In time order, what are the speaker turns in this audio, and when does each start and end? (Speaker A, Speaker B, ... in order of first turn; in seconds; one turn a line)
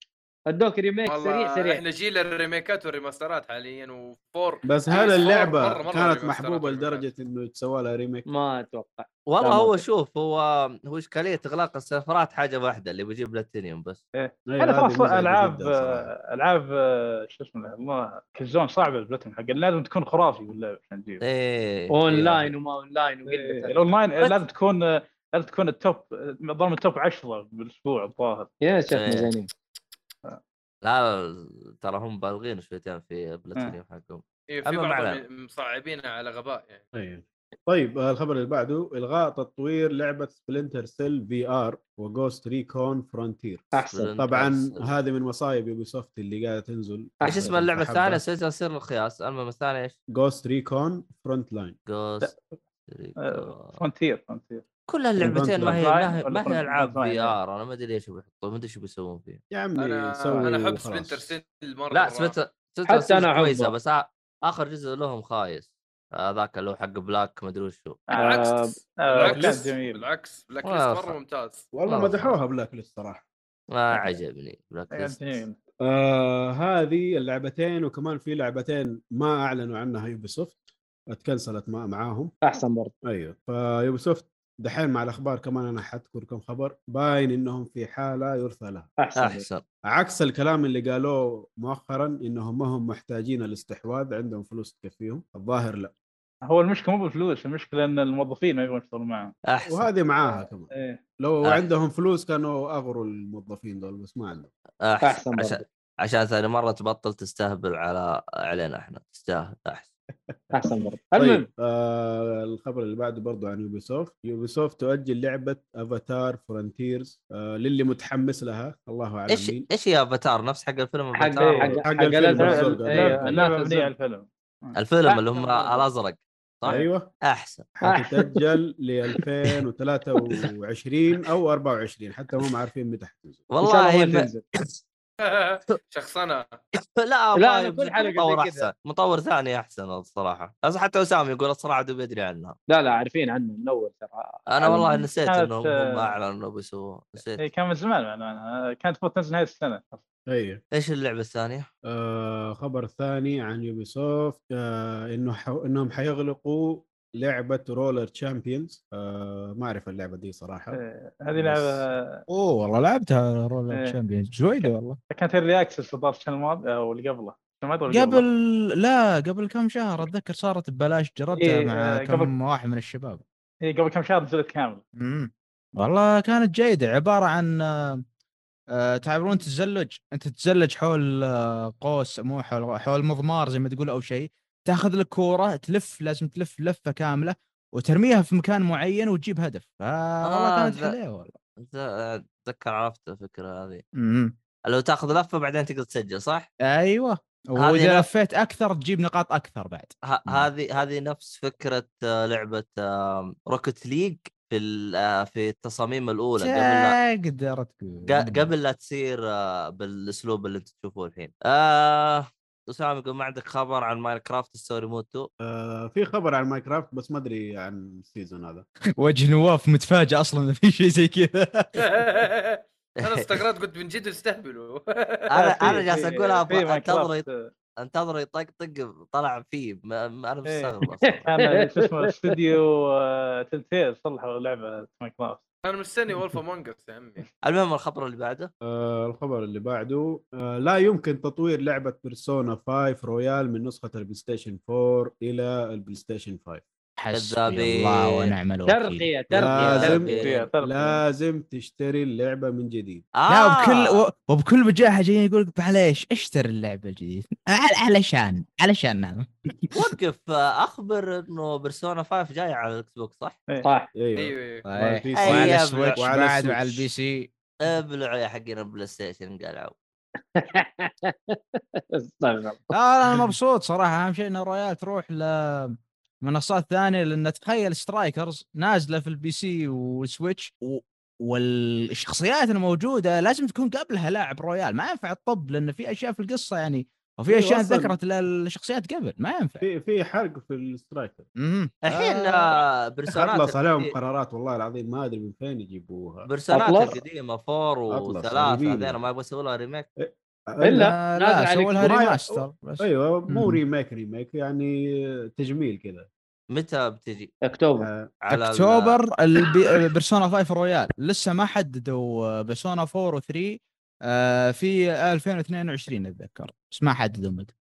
Speaker A: 0.5-1.8
Speaker B: 1.1-7.1
Speaker C: 4.7-8.2
Speaker A: 8.3-9.8
Speaker D: 9.3-14.0
Speaker E: 14.2-21.2
Speaker C: 14.5-16.1
Speaker D: 21.2-22.5
Speaker A: 21.9-24.3
Speaker E: 23.3-28.5
Speaker A: 28.6-29.5
Speaker D: 28.9-29.3
Speaker D: 30.8-35.2
Speaker B: 34.5-36.8
Speaker C: 36.9-48.2
Speaker A: 43.7-44.1
Speaker D: 43.9-45.0
Speaker A: 47.2-47.5
Speaker D: 47.2-50.0
Speaker C: 50.1-51.8
Speaker D: 51.9-52.3
Speaker D: 52.9-53.8
Speaker E: 53.3-54.6
Speaker D: 54.9-59.4
Speaker C: 55.2-55.9
Speaker E: 55.7-57.4
Speaker C: 59.5-61.4
Speaker B: 59.8-62.4
Speaker D: 61.9-68.0
Speaker A: 62.9-63.7
Speaker E: 68.1-70.0
Speaker A: 68.2-68.8
Speaker B: 68.2-71.6
Speaker C: 69.2-69.6
Speaker D: 70.6-71.2
Speaker C: 71.7-73.2
Speaker D: 71.9-72.4
Speaker D: 73.7-75.5
Speaker E: 74.9-75.6
Speaker C: 75.8-82.3
Speaker A: 82.4-82.9
Speaker C: 83.0-88.9
Speaker A: 89.0-89.5
Speaker D: 89.2-89.6
Speaker C: 89.9-95.9
Speaker E: 96.4-99.4
Speaker D: 99.5-99.9
Speaker C: 99.6-104.5
Speaker E: 100.3-101.0
Speaker D: 104.8-109.9
Speaker A: 105.0-105.7
Speaker C: 110.3-119.7
Speaker A: 110.5-111.5
Speaker D: 119.3-121.8
Speaker A: 121.2-123.9
Speaker E: 121.4-121.8
Speaker C: 121.7-123.4
Speaker E: 122.3-124.8
Speaker D: 124.8-127.7
Speaker A: 125.1-125.8
Speaker C: 126.7-127.1
Speaker C: 127.8-133.5
Speaker A: 127.8-128.5
Speaker D: 133.5-134.8
Speaker A: 133.6-134.4
Speaker B: 135.2-136.6
Speaker D: 136.8-142.6
Speaker A: 137.3-138.7
Speaker A: 142.7-145.1
Speaker D: 144.5-147.4
Speaker E: 145.2-146.1
Speaker E: 147.4-150.0
Speaker C: 150.3-150.6
Speaker D: 150.7-151.7
Speaker C: 151.9-160.8
Speaker E: 160.7-162.2
Speaker C: 161.3-161.9
Speaker F: 162.3-165.0
Speaker E: 165.1-168.2
Speaker F: 167.9-173.2
Speaker E: 171.4-172.3
Speaker E: 173.7-174.8
Speaker F: 175.0-178.0
Speaker F: 178.8-191.3
Speaker D: 190.2-190.9
Speaker D: 191.6-193.8
Speaker F: 194.0-194.3
Speaker D: 194.7-196.5
Speaker F: 196.7-200.5
Speaker D: 197.6-198.1
Speaker D: 200.0-207.0
Speaker F: 206.4-208.5
Speaker D: 208.1-215.3
Speaker C: 215.4-218.7
Speaker F: 219.0-221.9
Speaker B: 221.8-225.5
Speaker D: 223.0-223.3
Speaker D: 225.3-227.3
Speaker E: 225.6-227.5
Speaker D: 227.8-231.3
Speaker E: 230.5-235.4
Speaker A: 231.3-232.4
Speaker B: 235.6-237.3
Speaker D: 237.4-238.5
Speaker C: 238.6-246.7
Speaker F: 247.0-249.7
Speaker D: 247.1-248.3
Speaker A: 248.7-250.3
Speaker C: 249.3-253.1
Speaker D: 249.4-250.4
Speaker E: 249.8-251.0
Speaker D: 253.2-254.0
Speaker F: 253.3-259.8
Speaker D: 259.7-263.4
Speaker A: 263.6-263.9
Speaker C: 263.9-266.9
Speaker B: 264.2-264.6
Speaker F: 264.7-267.3
Speaker D: 265.2-266.0
Speaker D: 267.6-269.8
Speaker A: 270.4-272.7
Speaker F: 272.7-289.6
Speaker C: 287.3-288.0
Speaker C: 289.6-291.3
Speaker F: 291.4-292.4
Speaker D: 291.8-293.9
Speaker C: 293.1-296.4
Speaker D: 296.3-299.9
Speaker A: 296.5-297.0
Speaker C: 297.9-299.0
Speaker C: 300.0-300.9
Speaker A: 300.6-301.9
Speaker F: 300.7-303.6
Speaker C: 301.8-306.1
Speaker D: 306.5-307.3
Speaker A: 307.4-307.9
Speaker C: 307.8-308.1
Speaker D: 308.2-309.0
Speaker F: 308.3-317.5